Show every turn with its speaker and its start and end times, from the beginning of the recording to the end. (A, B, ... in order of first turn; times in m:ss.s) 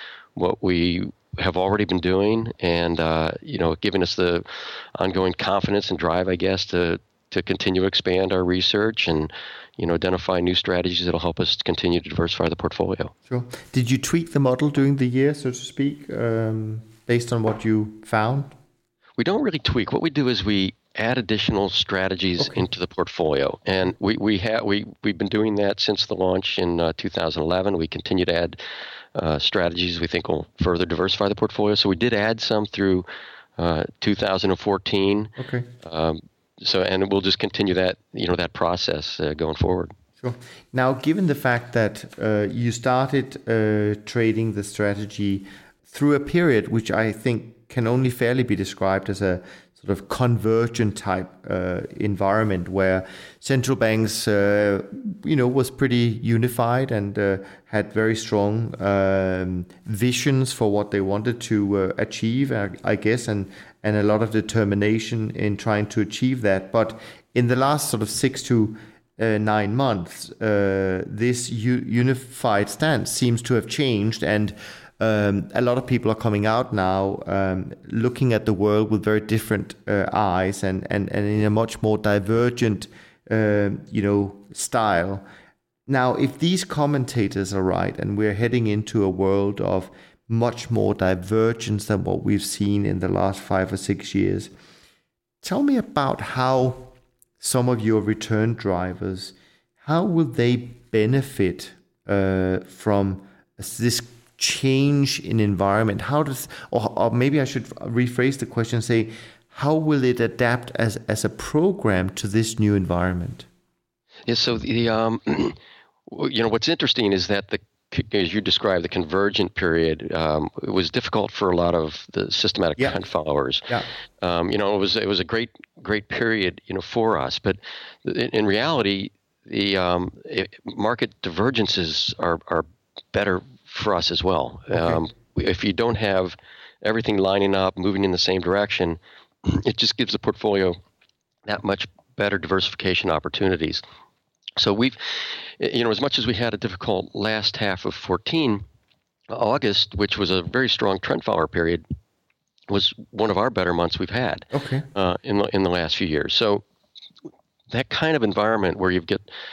0:00.4-0:13.1 A
0:13.3-0:18.5 B
0:19.2-0:28.6 A
0:29.1-0:33.1 A
0:33.6-0:39.9 A
0:35.4-0:35.7 B
0:40.2-1:25.2 B
1:25.9-1:34.5 B
1:35.4-1:53.5 B
1:54.3-2:03.7 A
2:04.2-2:20.8 A
2:14.7-2:15.0 B
2:21.4-2:23.8 A
2:24.6-2:28.6 A
2:29.3-2:31.8 A
2:32.7-2:36.6 A
2:34.5-2:34.9 B
2:37.7-2:39.2 A